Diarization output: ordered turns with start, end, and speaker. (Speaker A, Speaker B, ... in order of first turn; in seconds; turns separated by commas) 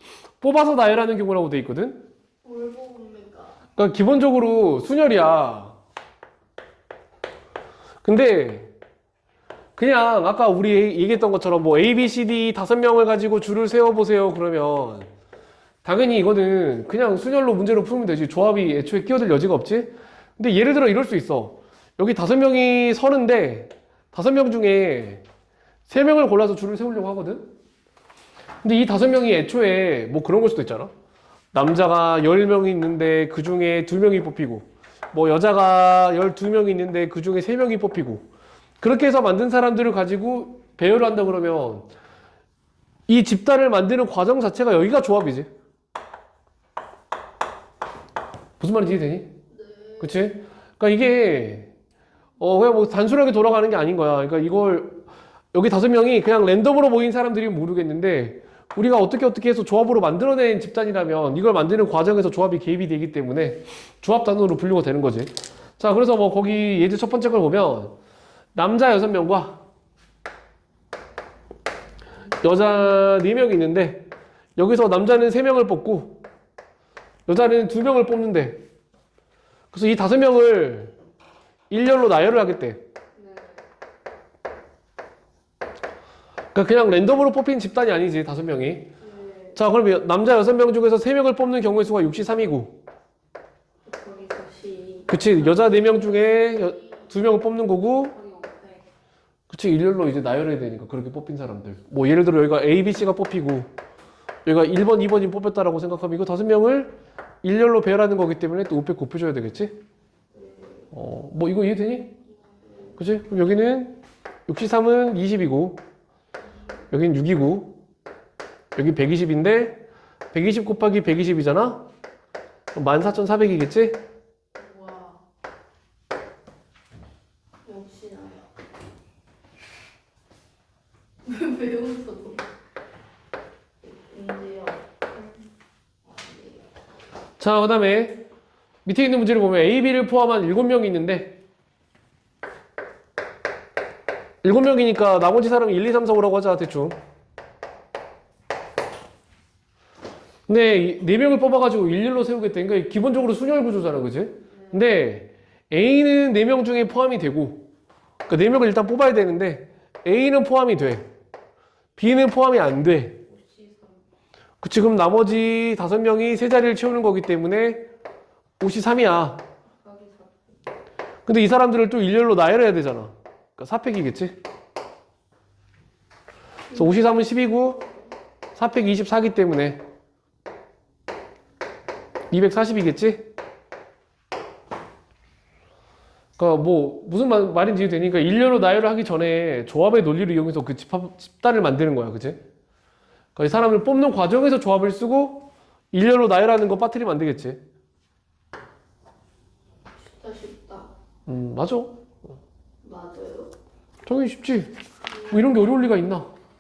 Speaker A: 0.4-2.0, Speaker B: 2.4-3.6, Speaker A: 3.8-5.8, Speaker A: 8.0-8.7, Speaker A: 9.8-15.1, Speaker A: 15.8-25.2, Speaker A: 25.9-27.5, Speaker A: 28.6-30.9, Speaker A: 31.5-38.3, Speaker A: 38.8-41.9, Speaker A: 43.1-45.5, Speaker A: 48.6-49.3, Speaker B: 49.5-50.3, Speaker A: 50.0-51.7, Speaker A: 52.4-55.0, Speaker A: 55.5-68.0, Speaker A: 68.5-69.6, Speaker A: 72.3-76.2, Speaker A: 77.3-78.6, Speaker A: 79.7-81.0, Speaker A: 81.7-82.8, Speaker B: 83.2-83.6, Speaker A: 86.5-88.9, Speaker B: 89.0-89.6, Speaker A: 89.5-92.8, Speaker B: 93.9-95.8, Speaker A: 95.1-98.2, Speaker B: 98.1-98.9, Speaker A: 99.5-103.7, Speaker A: 104.5-109.7, Speaker B: 110.4-110.9, Speaker A: 110.9-112.1, Speaker B: 112.5-113.0, Speaker A: 113.0-115.8, Speaker A: 116.9-117.8, Speaker A: 118.8-121.8, Speaker A: 122.7-124.0, Speaker B: 124.6-125.2, Speaker B: 127.7-128.5, Speaker B: 131.2-132.4, Speaker B: 133.8-135.3, Speaker B: 136.2-136.6, Speaker A: 137.4-138.2, Speaker A: 138.8-141.4, Speaker A: 144.4-147.0, Speaker A: 150.5-157.7, Speaker A: 158.3-161.1, Speaker A: 162.0-163.2, Speaker B: 163.3-164.0, Speaker A: 164.6-167.9, Speaker A: 168.6-169.4, Speaker B: 169.8-170.3, Speaker A: 171.3-174.4, Speaker B: 176.7-177.0, Speaker A: 176.7-177.9, Speaker A: 178.6-179.8, Speaker A: 182.3-183.3, Speaker A: 186.4-192.4, Speaker A: 193.4-197.6, Speaker B: 200.0-200.9, Speaker A: 201.3-201.9, Speaker B: 202.8-203.5, Speaker A: 204.1-204.7, Speaker B: 205.1-205.4, Speaker A: 205.2-206.3